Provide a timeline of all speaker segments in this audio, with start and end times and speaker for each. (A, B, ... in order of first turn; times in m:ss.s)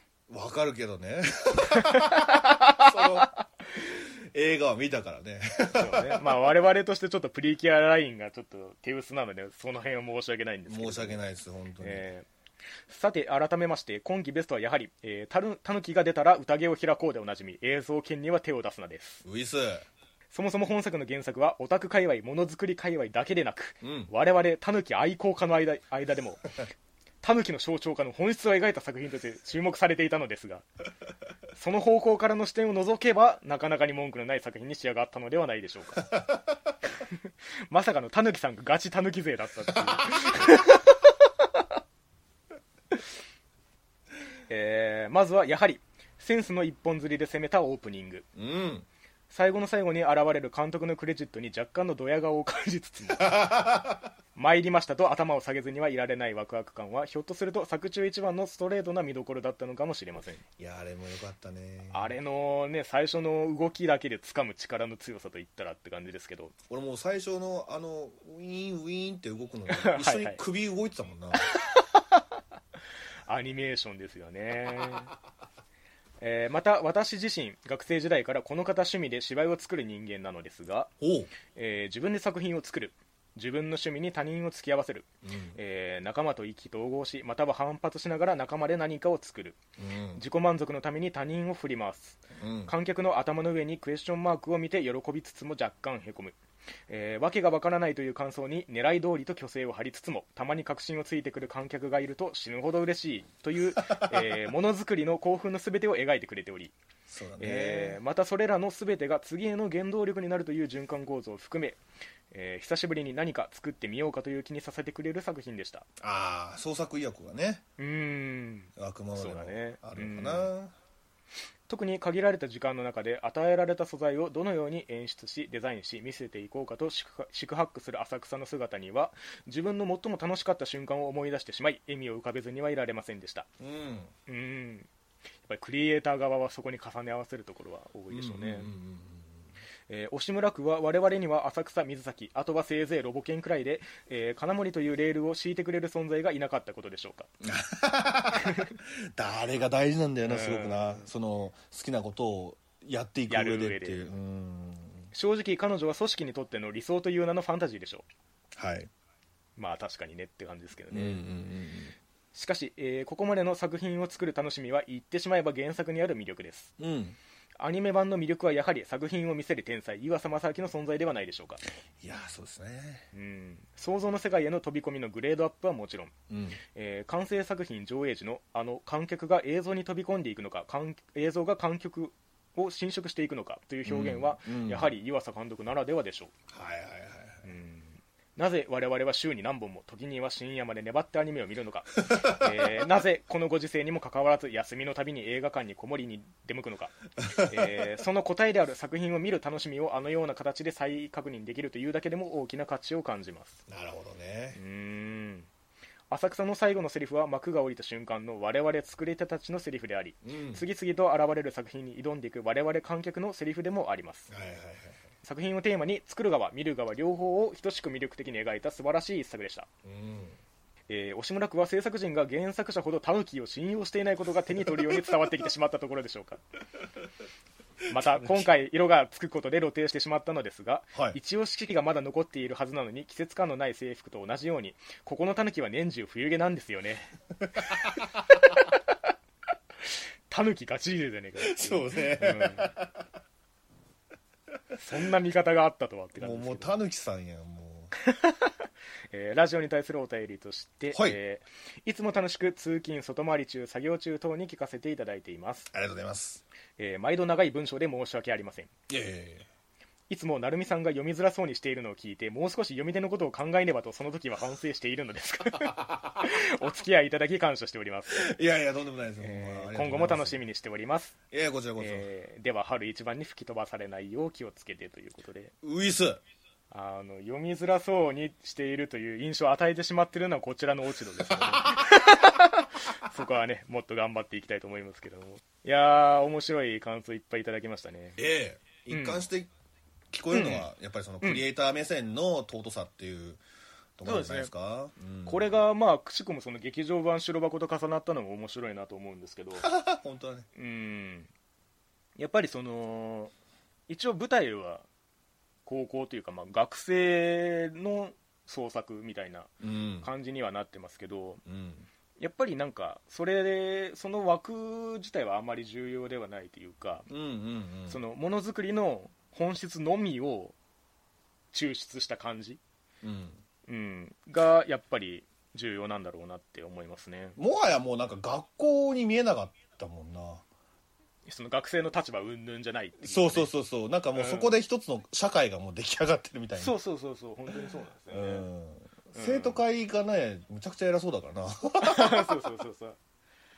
0:00.3-0:06.2 A
0:01.7-0:03.3 B
0:05.7-0:11.2 B
0:10.7-0:12.1 A
0:11.8-0:12.3 B
0:12.9-0:19.2 B
0:19.2-0:19.9 A
0:20.3-0:26.5 B
0:23.8-0:24.1 A
0:27.2-0:30.6 B
0:31.5-0:36.1 B
0:36.1-0:36.4 A
0:36.9-0:41.6 B
0:39.7-0:40.3 A
0:44.5-0:48.3 B
0:48.4-0:48.9 A
0:49.3-0:53.5 B
0:53.2-0:54.1 A
0:54.3-1:00.4 B
1:00.6-1:02.1 A
1:01.9-1:06.5 B
1:06.7-1:11.5 A
1:09.7-1:10.4 B
1:11.3-1:12.2 B
1:13.3-1:15.1 B
1:16.2-1:20.9 B
1:21.0-1:21.3 A
1:21.5-1:29.6 B
1:25.2-1:25.6 A
1:29.8-1:30.2 A
1:30.1-1:36.4 B
1:32.4-1:32.7 A
1:36.9-1:46.7 B
1:43.8-1:44.4 A
1:47.1-1:48.0 A
1:47.4-1:55.9 B
1:56.0-1:57.6 A
1:57.8-2:00.5 B
1:58.8-2:00.8 A
2:01.7-2:13.5 B
2:13.6-2:14.1 A
2:14.3-2:14.9 B
2:15.4-2:18.7 B
2:18.1-2:19.5 A
2:19.9-2:27.3 B
2:27.4-2:35.1 A
2:28.3-2:28.7 B
2:30.2-2:31.1 B
2:33.3-2:34.1 B
2:35.1-2:38.0 B
2:38.6-2:38.9 A
2:39.6-2:41.2 B
2:40.9-2:41.9 A
2:42.3-2:46.7 B
2:46.8-2:47.2 A
2:47.6-2:51.6 B
2:52.0-2:53.1 A
2:53.1-2:56.1 B
2:56.3-2:56.6 A
2:56.7-3:06.3 B
3:03.8-3:04.9 A
3:06.5-3:07.5 A
3:07.4-3:23.6 B
3:12.0-3:12.8 A
3:17.2-3:17.8 A
3:23.7-3:24.6 A
3:24.5-3:25.5 B
3:26.1-3:34.3 B
3:30.2-3:30.6 A
3:34.3-3:35.1 A
3:35.2-3:39.7 B
3:39.8-3:40.4 A
3:40.9-3:46.4 B
3:44.7-3:45.1 A
3:47.9-3:57.1 B
3:48.0-3:48.5 A
3:57.5-3:58.2 A
4:00.3-4:02.7 B
4:01.4-4:03.0 A
4:04.8-4:06.8 B
4:06.2-4:07.9 A
4:08.0-4:15.7 B
4:10.9-4:11.2 A
4:15.7-4:16.4 A
4:16.8-4:18.7 B
4:18.9-4:19.5 A
4:20.1-4:28.3 B
4:25.6-4:26.3 A
4:28.1-4:30.4 A
4:29.2-4:31.2 B
4:31.3-4:32.1 A
4:31.8-4:35.5 B
4:35.6-4:36.2 A
4:36.7-4:48.2 B
4:41.2-4:41.9 A
4:48.2-4:49.5 A
4:48.9-4:49.2 B
4:50.1-4:53.4 A
4:50.3-4:50.7 B
4:54.0-4:55.5 A
4:54.0-4:54.5 B
4:55.2-4:59.7 B
4:59.6-5:00.5 A
5:00.5-5:01.3 B
5:02.2-5:03.3 B
5:03.9-5:04.8 B
5:05.6-5:11.4 B
5:09.6-5:10.1 A
5:11.4-5:11.9 A
5:12.2-5:17.1 B
5:17.1-5:18.0 A
5:17.9-5:20.6 B
5:21.5-5:22.6 B
5:23.0-5:23.4 A
5:23.7-5:27.4 B
5:27.4-5:30.4 A
5:31.2-5:33.5 B
5:33.0-5:36.7 A
5:34.1-5:34.6 B
5:36.6-5:38.5 B
5:38.1-5:42.3 A
5:39.1-5:39.6 B
5:41.8-5:43.0 B